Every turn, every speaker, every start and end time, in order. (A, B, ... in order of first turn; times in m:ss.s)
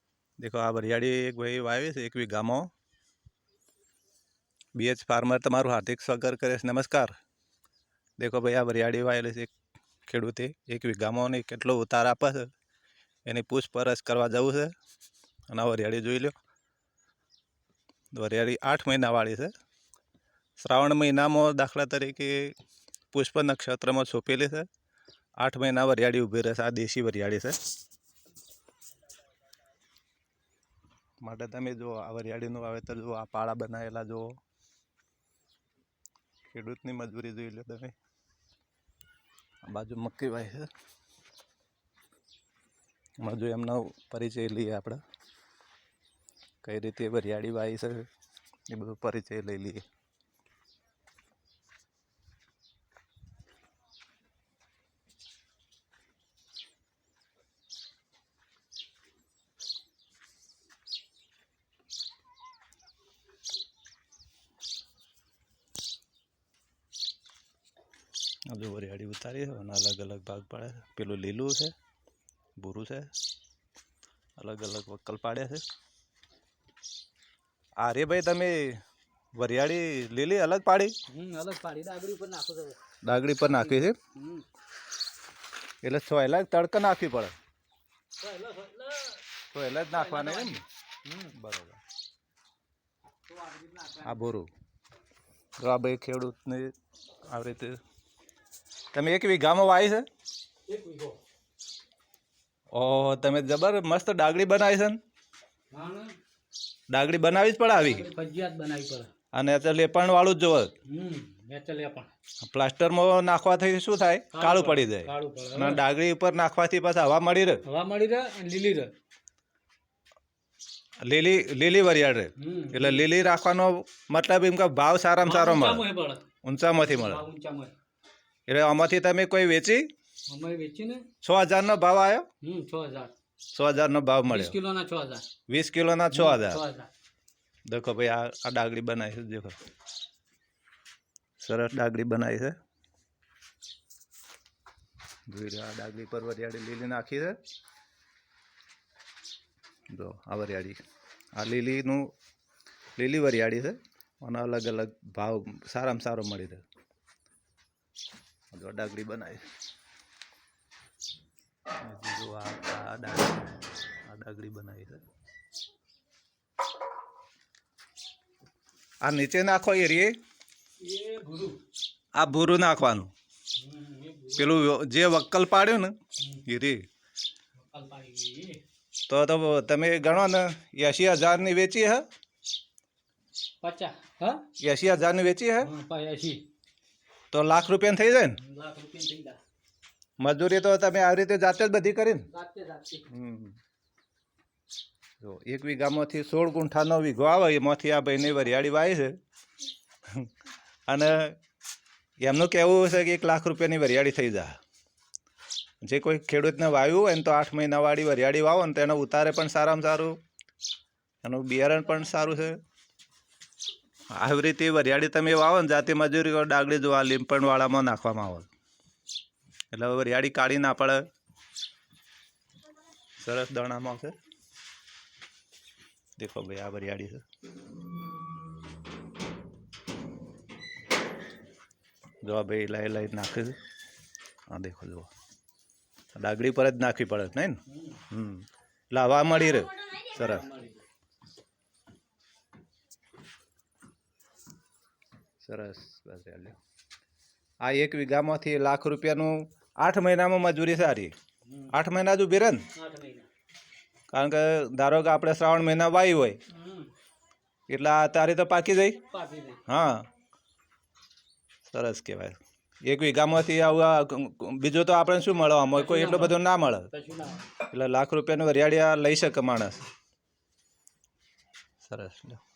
0:00.4-0:02.7 A
0:04.7-0:07.1 A
0:08.2-0:09.5 A
0:10.1-0:12.5 A
0:13.2-0:14.7 A
0:15.5-0:16.3 A
0:18.1-0:19.5 A
0:20.6-0:22.5 A
0:23.1-0:24.7 A
0:25.4-0:27.6 A
0:31.2-0:34.3 A
0:36.5-0:37.9 A
0:39.7-0:40.7 A
0:43.2-0:45.0 A
0:46.6-0:48.1 A
0:48.7-0:49.8 A
1:08.5-1:11.7 A
1:12.6-1:13.1 A
1:14.4-1:15.6 A
1:17.8-1:18.8 A
1:19.3-1:20.9 A
1:21.1-1:22.8 B
1:23.0-1:24.0 A
1:23.4-1:24.4 B
1:25.8-1:27.3 A
1:28.2-1:29.2 B
1:29.5-1:30.6 A
1:29.9-1:31.3 B
1:31.3-1:31.8 A
1:33.3-1:34.3 B
1:34.0-1:34.5 A
1:35.6-1:36.7 A
1:37.2-1:37.8 A
1:38.9-1:40.1 A
1:40.7-1:41.2 B
1:42.7-1:45.0 A
1:45.7-1:46.2 B
1:46.9-1:48.1 A
1:47.7-1:49.1 B
1:49.3-1:50.7 A
1:50.9-1:52.1 B
1:52.4-1:57.6 A
1:54.3-1:55.8 B
1:57.6-1:58.9 B
2:01.0-2:05.8 A
2:02.4-2:03.1 B
2:05.2-2:06.2 B
2:06.4-2:07.2 A
2:06.8-2:07.7 B
2:08.5-2:09.9 A
2:10.3-2:11.0 B
2:11.2-2:12.2 A
2:12.4-2:13.1 B
2:13.5-2:14.5 A
2:14.3-2:15.2 B
2:15.5-2:16.6 A
2:16.1-2:16.9 B
2:17.7-2:19.6 A
2:21.4-2:22.6 A
2:25.3-2:27.4 A
2:29.9-2:30.8 A
2:31.4-2:32.1 A
2:33.0-2:36.6 A
2:38.5-2:39.4 A
2:41.8-2:45.0 A
2:49.0-2:50.1 A
2:50.8-2:51.6 B
2:52.2-2:53.1 A
2:53.6-2:54.6 B
2:54.4-2:56.8 A
2:56.2-2:56.4 B
2:57.7-2:58.6 B
2:59.1-3:02.0 A
3:03.6-3:04.5 B
3:04.6-3:05.7 A
3:05.6-3:06.4 B
3:07.3-3:08.4 A
3:08.4-3:09.4 B
3:10.2-3:12.3 A
3:12.3-3:13.1 B
3:13.1-3:13.6 A
3:15.2-3:19.2 A
3:20.1-3:20.3 A
3:20.9-3:21.4 A
3:22.2-3:24.5 A
3:25.8-3:30.2 A
3:31.2-3:32.6 A
3:34.1-3:38.5 A
3:39.7-3:41.1 A
3:43.2-3:44.2 A
3:46.2-3:47.2 A
3:52.2-3:53.6 A
3:54.5-3:55.1 A
3:56.1-4:00.5 A
3:57.7-3:58.0 B
4:00.2-4:00.8 B
4:05.4-4:06.6 A
4:07.6-4:11.1 A
4:11.7-4:12.7 A
4:12.7-4:13.3 B
4:14.1-4:16.4 A
4:16.5-4:16.9 B
4:17.7-4:19.0 A
4:19.1-4:19.6 B
4:19.7-4:20.0 A
4:21.7-4:26.9 A
4:25.7-4:26.4 B
4:26.9-4:27.5 B
4:27.6-4:29.8 A
4:31.8-4:32.4 A